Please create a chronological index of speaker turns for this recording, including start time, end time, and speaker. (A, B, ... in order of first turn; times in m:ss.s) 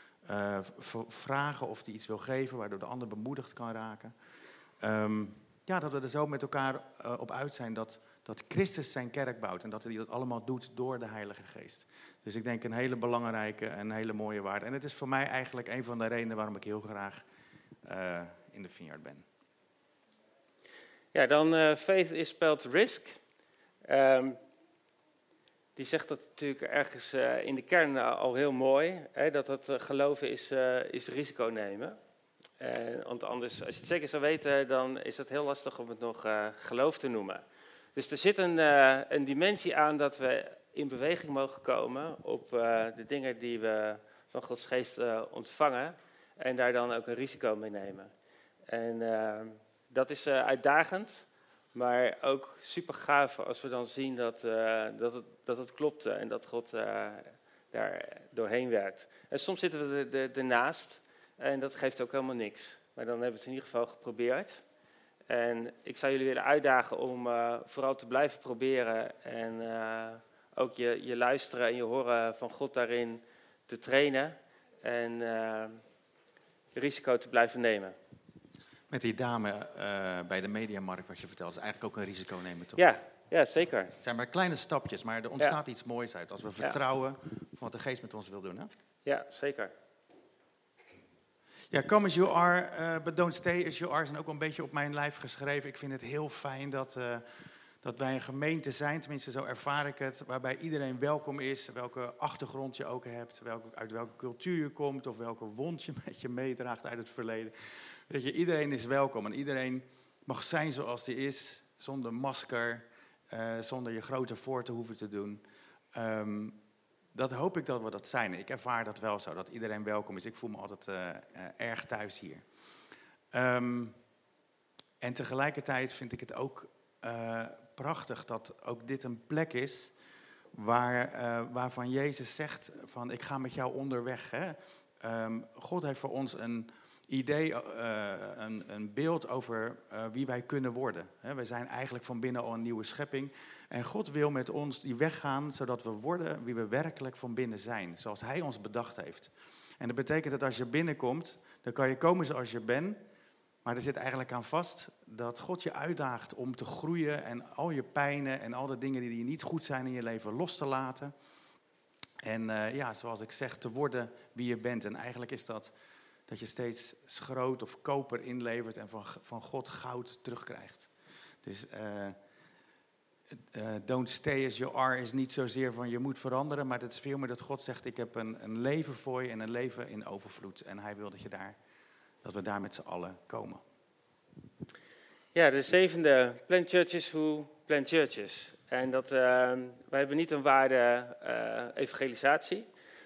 0:00.2-0:04.1 A
0:04.8-0:17.2 A
0:17.8-0:19.2 A
0:21.1-0:23.2 B
0:23.8-0:24.4 B
0:25.8-0:32.0 B
0:32.6-0:37.4 B
0:37.9-0:48.1 B
0:48.7-1:04.6 B
1:05.3-1:15.8 B
1:16.7-1:18.0 B
1:18.9-1:22.8 A
1:22.8-1:24.0 B
1:24.0-1:28.7 A
1:29.0-1:29.7 B
1:31.7-1:37.2 A
1:37.8-1:55.4 A
1:55.9-1:56.6 A
1:57.1-2:02.4 A
2:03.3-2:04.0 A
2:05.0-2:09.9 A
2:10.5-2:33.0 A
2:33.6-2:41.1 A
2:42.2-2:45.7 A
2:46.3-2:50.9 A
2:51.4-2:52.2 A
2:53.4-3:01.6 A
3:02.2-3:03.6 A
3:05.3-3:12.7 B